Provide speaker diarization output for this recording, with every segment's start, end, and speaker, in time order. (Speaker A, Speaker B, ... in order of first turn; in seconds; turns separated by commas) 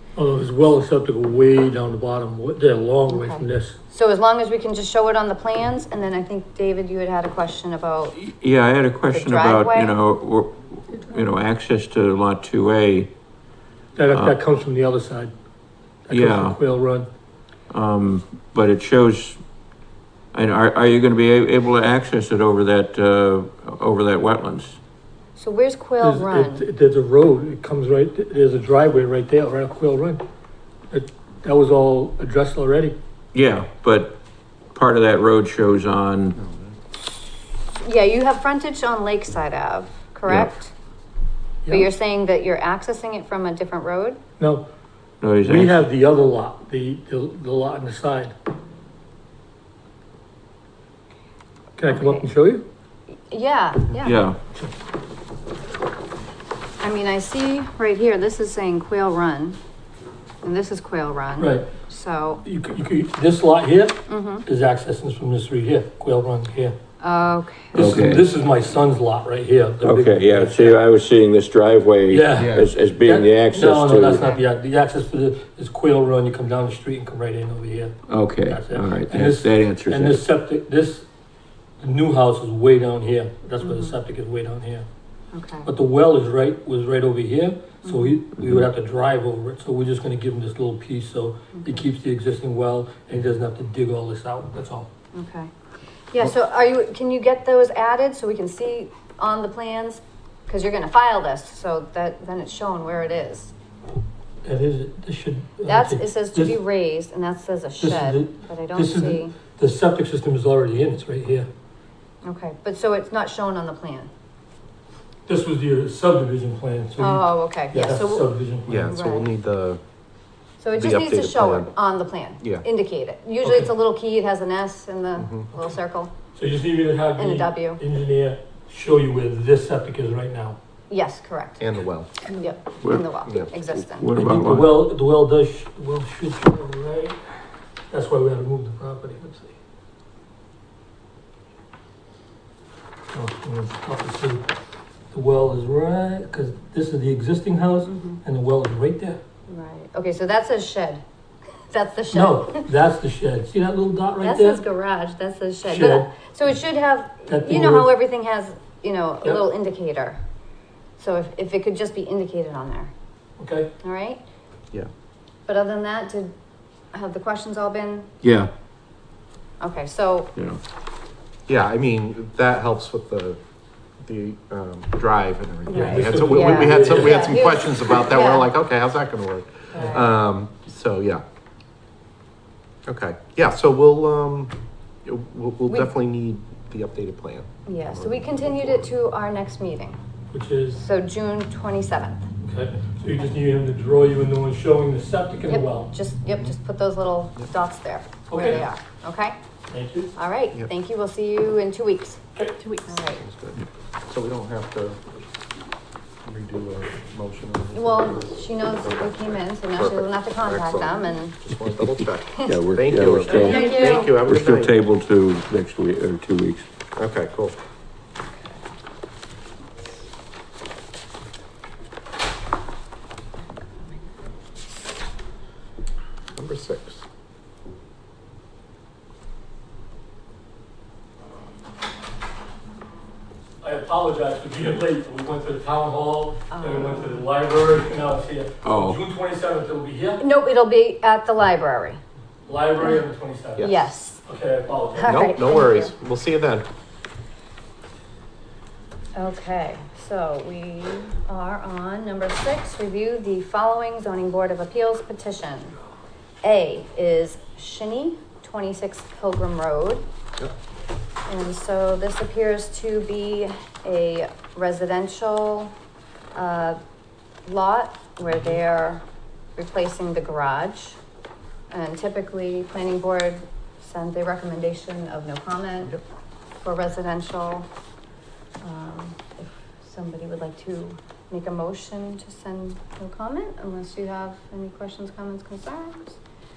Speaker A: 0.1-3.8, Speaker B: 3.1-8.2, Speaker C: 8.1-13.1, Speaker B: 9.1-9.9, Speaker A: 13.9-15.3, Speaker C: 14.1-14.4, Speaker A: 16.1-17.1, Speaker C: 16.1-16.6, Speaker C: 17.7-19.4, Speaker C: 20.3-24.8, Speaker B: 25.4-26.6, Speaker A: 26.0-30.2, Speaker A: 30.9-33.0, Speaker C: 33.3-34.2, Speaker C: 34.7-36.4, Speaker D: 36.4-36.8, Speaker B: 37.8-40.7, Speaker C: 40.3-40.5, Speaker A: 41.6-41.9, Speaker B: 41.7-44.2, Speaker A: 44.4-44.6, Speaker C: 45.2-45.9, Speaker A: 45.4-48.3, Speaker A: 51.8-52.6, Speaker B: 51.9-52.3, Speaker B: 53.3-54.3, Speaker C: 54.0-54.4, Speaker B: 56.8-59.6, Speaker B: 60.4-62.4, Speaker A: 61.4-61.7, Speaker A: 62.4-66.8, Speaker B: 64.1-64.4, Speaker B: 67.0-68.0, Speaker C: 67.7-68.3, Speaker A: 67.7-70.8, Speaker C: 69.8-74.3, Speaker A: 72.1-81.0, Speaker D: 72.3-72.7, Speaker C: 78.1-80.2, Speaker A: 81.8-84.9, Speaker B: 83.6-84.0, Speaker B: 85.3-85.7, Speaker A: 85.6-94.9, Speaker B: 87.8-88.2, Speaker C: 88.4-88.6, Speaker B: 91.5-91.9, Speaker B: 95.1-95.5, Speaker B: 96.1-103.5, Speaker A: 104.4-106.6, Speaker B: 105.6-109.4, Speaker A: 107.8-111.5, Speaker B: 112.2-114.1, Speaker A: 115.2-118.9, Speaker B: 117.0-118.3, Speaker D: 118.7-119.8, Speaker B: 118.8-119.3, Speaker B: 120.6-126.1, Speaker D: 120.7-121.8, Speaker A: 123.4-123.7, Speaker D: 125.2-125.5, Speaker A: 126.3-130.6, Speaker B: 127.2-127.8, Speaker B: 130.9-131.7, Speaker D: 131.6-132.1, Speaker B: 132.4-134.1, Speaker C: 132.8-133.1, Speaker C: 133.8-134.8, Speaker A: 134.2-137.2, Speaker A: 137.9-139.6, Speaker A: 143.1-144.4, Speaker A: 145.1-149.2, Speaker B: 147.8-148.2, Speaker B: 149.5-151.0, Speaker B: 151.7-152.7, Speaker A: 152.1-154.6, Speaker B: 154.2-160.2, Speaker A: 155.6-156.1, Speaker A: 157.3-157.9, Speaker B: 161.0-162.9, Speaker A: 163.4-163.7, Speaker B: 163.8-164.2, Speaker B: 165.5-166.3, Speaker B: 166.9-168.1, Speaker C: 168.2-168.5, Speaker B: 169.6-170.3, Speaker D: 171.5-173.4, Speaker D: 174.0-181.2, Speaker B: 175.7-178.5, Speaker A: 175.7-177.3, Speaker B: 179.7-180.1, Speaker A: 179.8-180.0, Speaker D: 182.8-184.5, Speaker D: 185.0-188.9, Speaker B: 185.7-185.9, Speaker B: 187.7-190.0, Speaker A: 190.3-190.8, Speaker B: 190.7-192.3, Speaker A: 192.4-195.9, Speaker B: 195.5-199.4, Speaker A: 198.3-198.6, Speaker A: 199.7-200.1, Speaker B: 200.1-202.2, Speaker A: 202.3-202.7, Speaker B: 202.8-203.2, Speaker D: 203.1-205.0, Speaker D: 206.2-214.8, Speaker B: 207.7-211.4, Speaker C: 212.4-216.7, Speaker B: 213.3-214.2, Speaker A: 213.4-213.7, Speaker D: 216.9-217.6, Speaker D: 226.3-227.0, Speaker A: 233.6-240.2, Speaker B: 236.5-237.2, Speaker C: 238.6-239.0, Speaker B: 240.2-242.0, Speaker A: 242.4-243.7, Speaker D: 243.6-243.9, Speaker B: 243.6-244.2, Speaker A: 244.2-245.3, Speaker B: 244.9-245.9, Speaker D: 245.1-246.7, Speaker B: 249.1-255.8, Speaker B: 256.4-260.0, Speaker B: 261.3-265.7, Speaker B: 266.3-266.8, Speaker B: 267.4-269.0, Speaker B: 269.6-271.0, Speaker B: 271.7-276.0, Speaker B: 276.6-277.7, Speaker B: 278.6-286.2